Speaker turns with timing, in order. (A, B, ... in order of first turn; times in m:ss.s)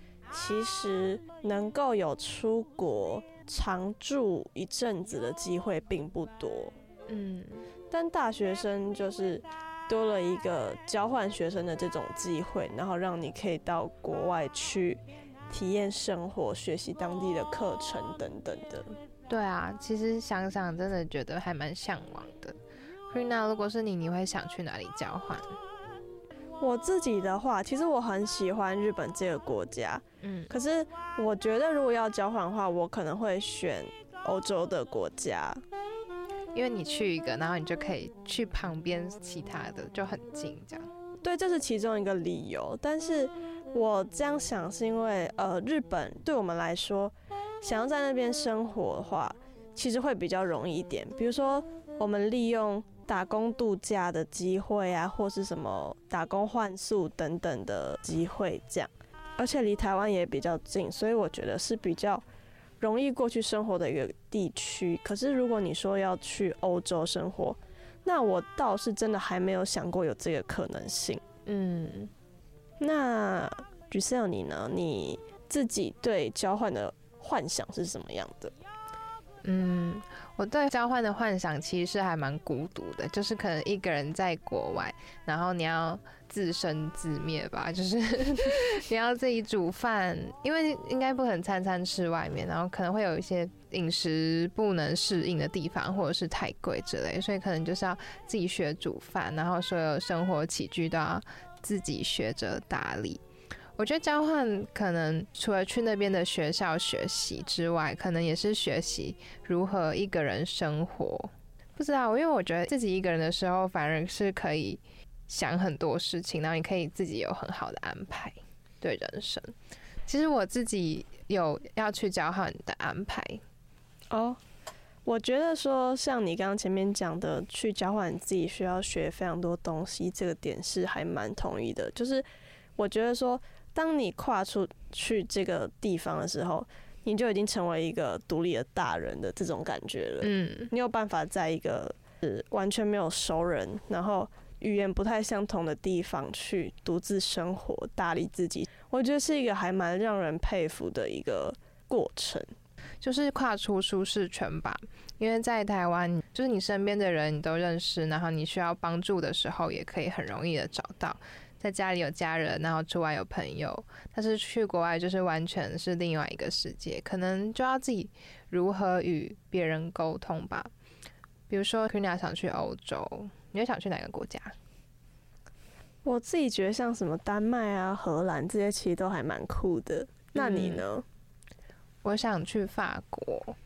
0:00.3-0:06.7 A
0:07.1-0:07.6 B
0:07.9-0:18.9 A
0:19.3-0:22.6 B
0:23.1-0:25.6 B
0:26.6-0:35.6 A
0:30.2-0:30.5 B
0:36.5-0:40.9 B
0:41.2-1:02.2 A
1:02.8-1:11.2 A
1:11.4-1:12.1 B
1:12.8-1:18.5 A
1:19.4-1:43.2 B
1:43.8-1:59.5 B
2:00.1-2:03.4 B
2:04.1-2:04.4 A
2:05.0-2:12.2 A
2:12.8-2:32.5 A
2:20.2-2:20.7 B
2:33.0-2:50.7 B
2:51.5-2:54.5 B
2:56.0-3:01.0 A
3:00.4-3:00.8 B
3:02.0-3:03.6 B